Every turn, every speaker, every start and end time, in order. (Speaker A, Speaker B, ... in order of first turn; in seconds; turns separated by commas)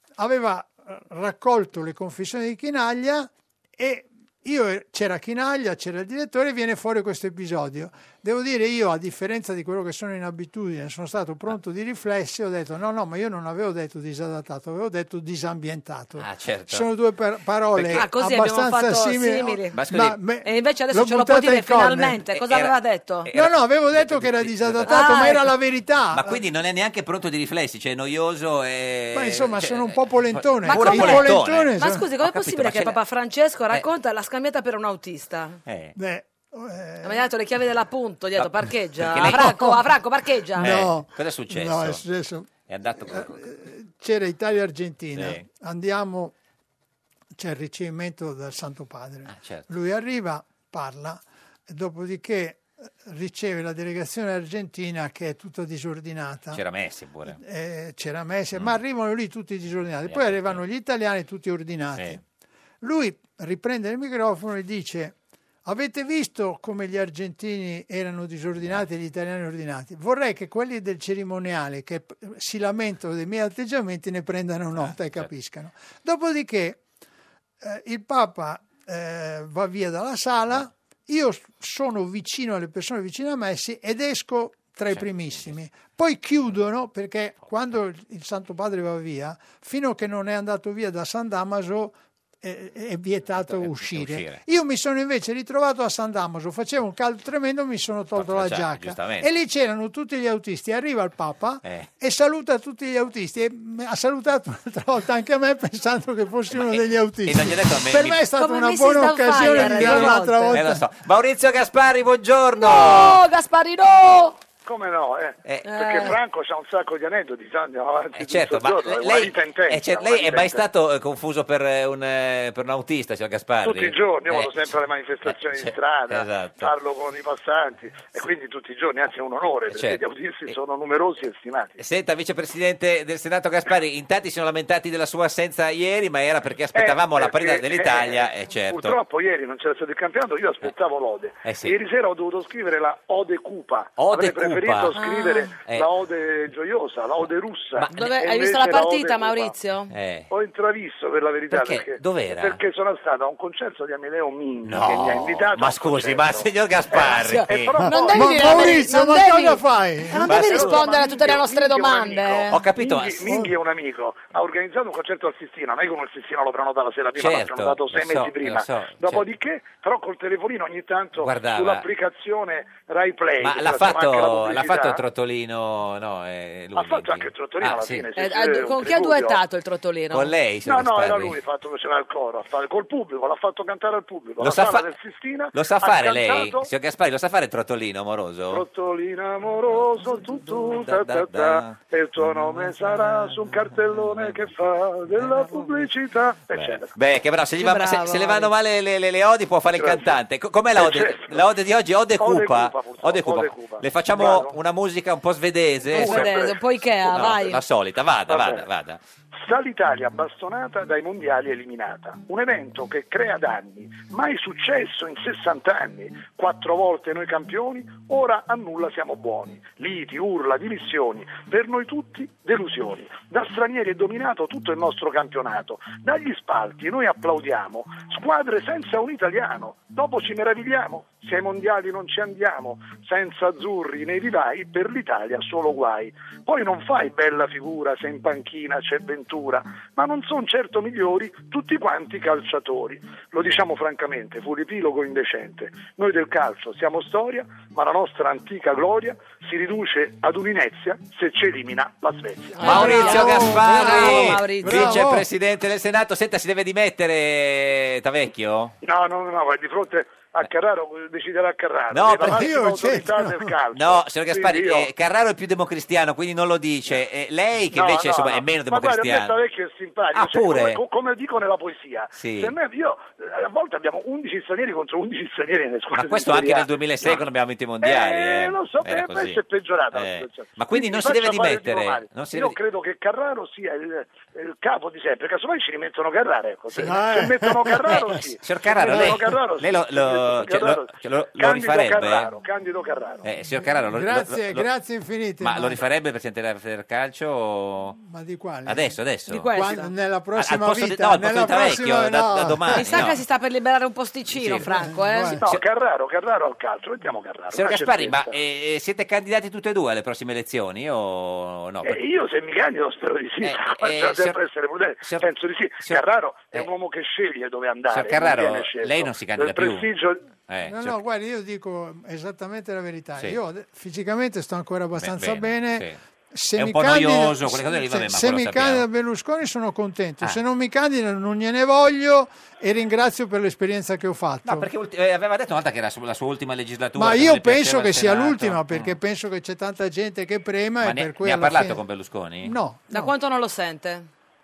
Speaker A: 0.2-22.2, Speaker B: 16.2-16.9, Speaker B: 17.8-18.0, Speaker C: 17.9-19.8, Speaker B: 19.7-20.2, Speaker C: 20.4-23.3, Speaker B: 22.3-22.7, Speaker B: 23.3-25.4, Speaker A: 23.3-26.4, Speaker C: 24.9-25.4, Speaker B: 26.1-33.0, Speaker A: 29.1-32.1, Speaker C: 30.6-35.6, Speaker B: 35.7-35.9, Speaker A: 36.0-37.3, Speaker C: 37.0-40.8, Speaker B: 38.4-39.7, Speaker A: 39.2-39.8, Speaker A: 40.6-42.5, Speaker B: 40.6-42.0, Speaker B: 42.7-43.4, Speaker A: 43.0-46.3, Speaker B: 45.1-45.4, Speaker A: 47.4-56.6, Speaker B: 49.3-49.7, Speaker B: 56.5-57.4, Speaker A: 57.3-62.2, Speaker B: 60.1-60.6, Speaker A: 62.8-76.8, Speaker B: 74.8-75.3, Speaker A: 77.6-110.8, Speaker B: 84.9-85.5, Speaker B: 93.4-94.4, Speaker B: 98.2-99.3, Speaker B: 106.5-108.2, Speaker C: 108.4-110.6, Speaker B: 109.3-113.2, Speaker C: 112.6-114.4, Speaker D: 114.6-120.6, Speaker C: 115.7-116.1, Speaker B: 118.1-124.7, Speaker D: 123.6-131.8, Speaker B: 125.2-126.7, Speaker B: 129.7-130.5, Speaker B: 131.8-139.0, Speaker D: 136.7-149.6, Speaker B: 141.4-141.8, Speaker B: 144.0-145.0, Speaker C: 144.9-145.5, Speaker B: 145.6-145.9, Speaker B: 147.8-148.0, Speaker C: 147.9-149.9, Speaker B: 149.9-150.3, Speaker D: 150.3-158.8, Speaker B: 151.5-152.6, Speaker B: 154.7-157.8, Speaker C: 157.0-162.6, Speaker A: 157.8-160.9, Speaker B: 160.3-160.9, Speaker D: 160.3-175.0, Speaker B: 162.5-163.4, Speaker B: 167.2-169.2, Speaker B: 171.2-171.9, Speaker B: 173.4-178.1, Speaker D: 176.8-179.4, Speaker C: 178.2-180.3, Speaker B: 180.1-181.4, Speaker D: 180.7-186.7, Speaker B: 184.4-184.9, Speaker B: 185.5-188.6, Speaker D: 188.5-196.9, Speaker B: 189.7-194.5, Speaker B: 195.1-195.9, Speaker B: 196.5-206.4, Speaker A: 197.6-198.5, Speaker D: 199.8-200.2, Speaker D: 200.8-201.4, Speaker D: 202.2-204.6, Speaker D: 205.9-206.6, Speaker C: 205.9-207.6, Speaker B: 207.1-209.0, Speaker D: 208.3-208.6, Speaker D: 209.4-252.9, Speaker C: 252.6-255.0, Speaker A: 252.6-255.3, Speaker B: 252.6-258.8, Speaker D: 258.8-264.9, Speaker B: 261.9-262.5, Speaker A: 262.2-263.6, Speaker B: 263.7-269.3, Speaker D: 267.7-277.2, Speaker B: 270.1-270.8, Speaker B: 272.1-272.5, Speaker B: 276.0-279.4, Speaker D: 277.8-293.2, Speaker B: 279.9-282.6, Speaker A: 286.8-288.2, Speaker B: 287.8-292.3, Speaker A: 288.9-289.2, Speaker B: 293.2-294.7, Speaker A: 293.4-295.8, Speaker B: 295.4-298.0, Speaker A: 298.0-299.0, Speaker B: 298.7-299.5, Speaker C: 299.3-299.9, Speaker A: 299.5-303.1, Speaker B: 300.4-303.2, Speaker C: 302.7-305.4, Speaker B: 304.4-304.7, Speaker A: 304.6-305.4, Speaker D: 305.4-308.4, Speaker B: 307.5-312.0, Speaker D: 311.8-320.2, Speaker B: 313.4-314.4, Speaker B: 315.8-316.7, Speaker B: 317.9-319.9, Speaker B: 320.5-321.0, Speaker A: 320.6-334.7, Speaker B: 325.0-325.9, Speaker B: 326.6-328.9, Speaker B: 334.4-339.0, Speaker A: 337.0-341.8, Speaker B: 340.8-342.6, Speaker A: 342.4-343.1, Speaker C: 342.9-344.1